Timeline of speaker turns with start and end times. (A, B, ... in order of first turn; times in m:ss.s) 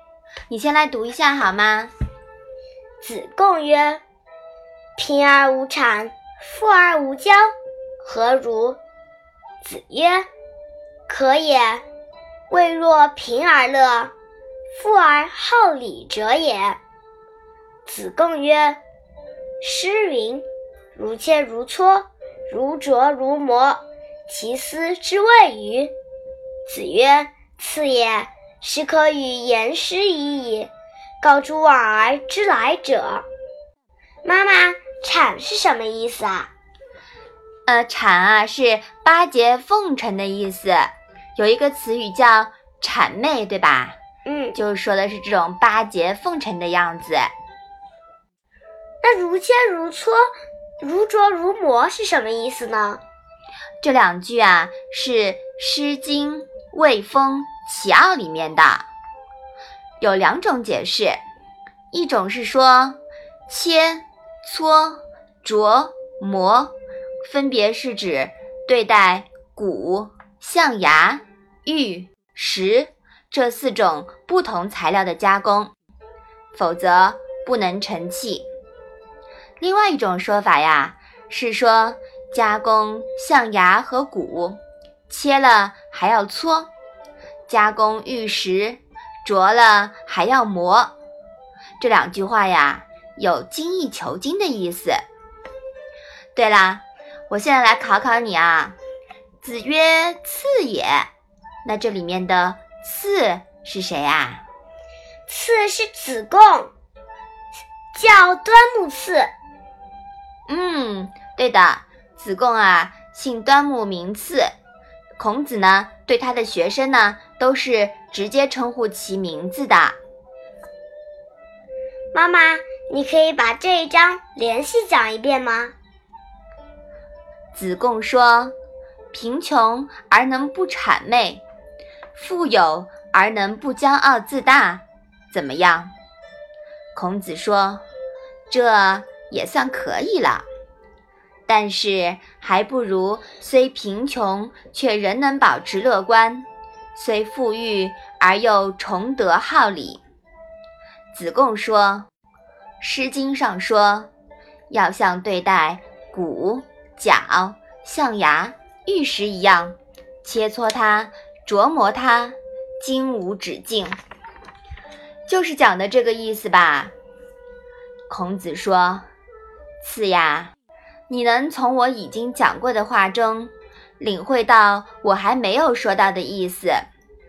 0:00.5-0:01.9 A
0:03.0-0:04.0 B
0:05.0-0:07.5 B
0:08.0-0:08.8 B
0:09.6-0:10.2 B
0:11.1-0:11.8 B
0:12.5-0:14.1 B
0:14.7-0:16.8 B
0:17.8-0:18.8 B
0:19.6-0:25.9 B
0:26.7-0:30.7 B
0:31.2-0:33.2 B
0:34.2-0:36.5 B
0:37.7-0:44.0 A
0:44.2-0:44.6 B
0:44.5-0:47.3 A
0:49.0-0:50.3 B
0:50.8-0:53.0 B
0:53.8-0:58.8 A
1:00.0-1:01.2 A
1:01.9-1:15.7 A
1:16.5-1:18.5 A
1:19.6-1:26.7 A
1:27.5-1:30.9 A
1:31.8-1:35.0 A
1:36.3-1:38.8 A
1:39.4-1:41.1 A
1:41.6-1:44.4 A
1:45.3-1:46.7 B
1:47.9-1:49.3 B
1:50.5-1:54.5 A
1:55.2-2:00.0 A
2:02.1-2:05.7 B
2:07.5-2:08.5 A
2:09.1-2:11.4 A
2:12.1-2:15.9 A
2:16.9-2:17.8 A
2:18.5-2:20.4 A
2:21.5-2:30.0 A
2:31.1-2:32.1 A
2:32.8-2:34.1 A
2:34.7-2:44.0 A
2:45.3-2:46.9 A
2:48.1-2:49.0 A
2:49.8-2:50.5 A
2:51.1-2:56.9 A